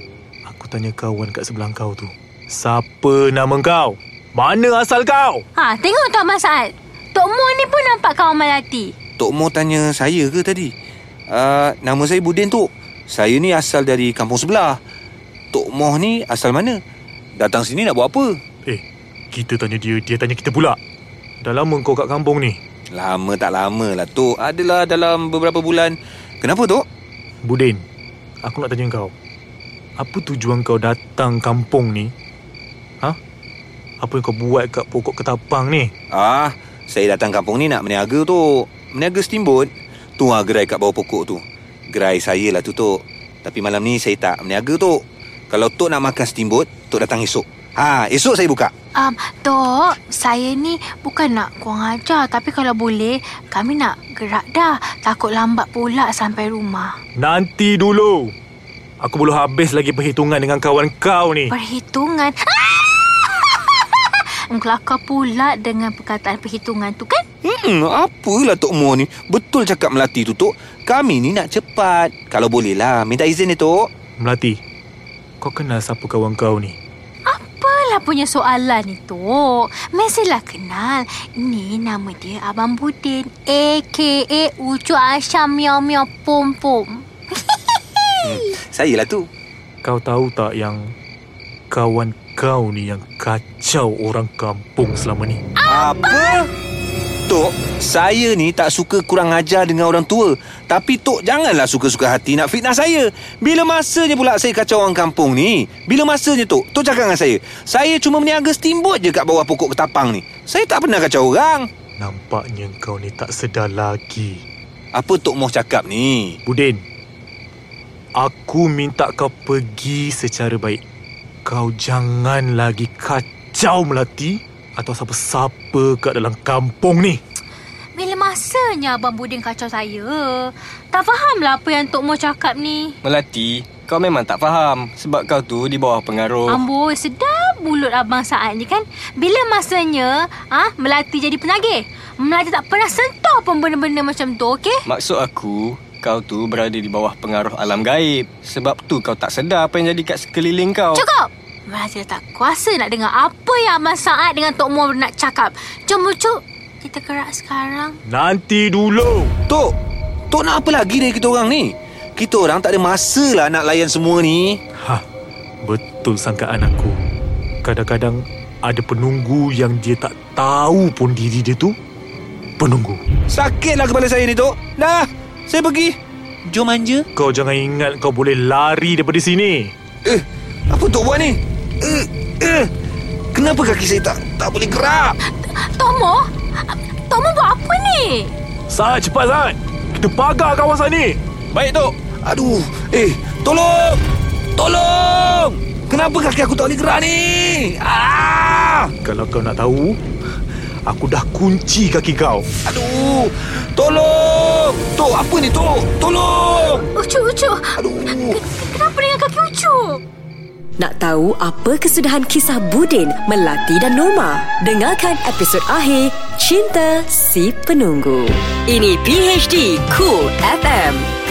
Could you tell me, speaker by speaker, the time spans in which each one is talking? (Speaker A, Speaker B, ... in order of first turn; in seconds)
Speaker A: 0.5-5.4, 18.6-20.8, 21.4-22.6, 27.4-27.8, 28.4-29.1, 30.0-32.1, 34.0-35.9, 57.2-58.3, 59.0-61.5, 74.2-74.6, 75.4-76.8, 89.8-90.9, 91.7-95.4, 112.0-114.4, 116.5-116.8, 118.2-120.8, 121.4-127.2, 158.1-159.3, 165.6-167.0, 167.6-171.7, 172.6-173.0, 177.2-179.7, 188.7-191.2, 199.0-200.0, 200.8-202.4
Speaker B: 5.5-8.9, 49.0-56.9, 61.5-67.2, 77.2-88.4, 95.6-96.5, 127.9-132.9, 136.5-144.8, 150.9-158.0, 185.4-188.3, 206.9-210.0
Speaker C: 9.2-10.7, 11.3-14.8, 15.5-16.8, 17.4-18.4, 22.9-26.8, 36.1-48.7, 67.4-73.9, 88.2-89.3, 95.7-96.5, 97.3-111.7, 114.9-116.4, 159.5-159.7, 160.3-164.6, 173.3-177.1, 180.0-182.7, 183.3-185.2, 191.5-194.0, 194.6-198.9, 202.7-206.8, 207.8-208.4
Speaker D: 133.0-136.6, 144.9-151.0
Speaker E: 210.8-221.1